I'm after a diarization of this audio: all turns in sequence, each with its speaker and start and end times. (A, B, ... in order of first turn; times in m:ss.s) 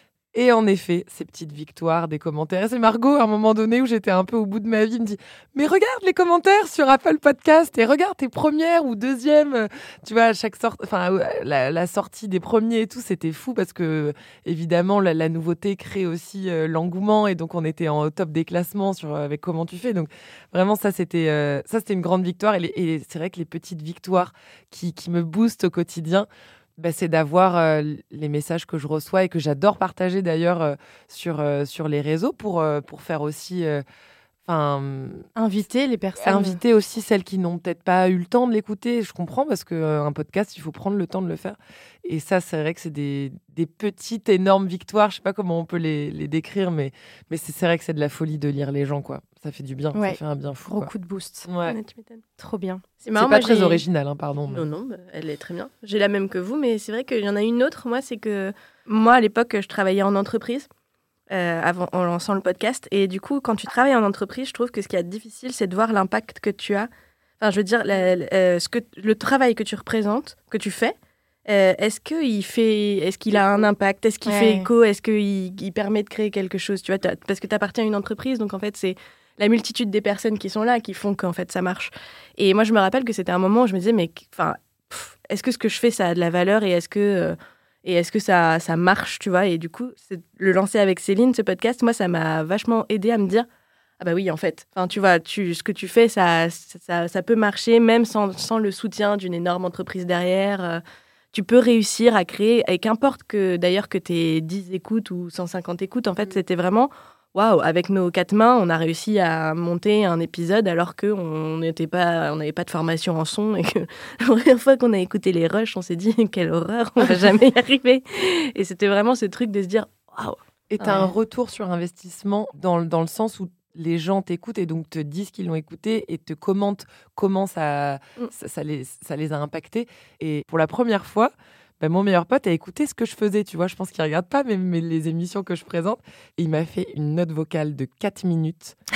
0:00.3-0:26.3 A
0:26.8-0:33.8 A
0:34.4-0:35.2 A
0:35.4-0:36.6 B
0:36.2-0:50.9 A
0:49.9-0:51.5 B
0:51.5-0:51.8 A
0:51.6-0:52.2 C
0:52.4-0:52.8 B
0:53.0-0:53.8 C
0:53.2-0:54.7 A
0:54.5-1:00.7 C
1:01.3-1:06.9 C
1:07.4-1:10.9 C
1:11.4-1:33.4 C
1:14.2-1:14.7 B
1:34.0-1:40.8 C
1:41.3-2:01.1 C
2:00.7-2:18.8 A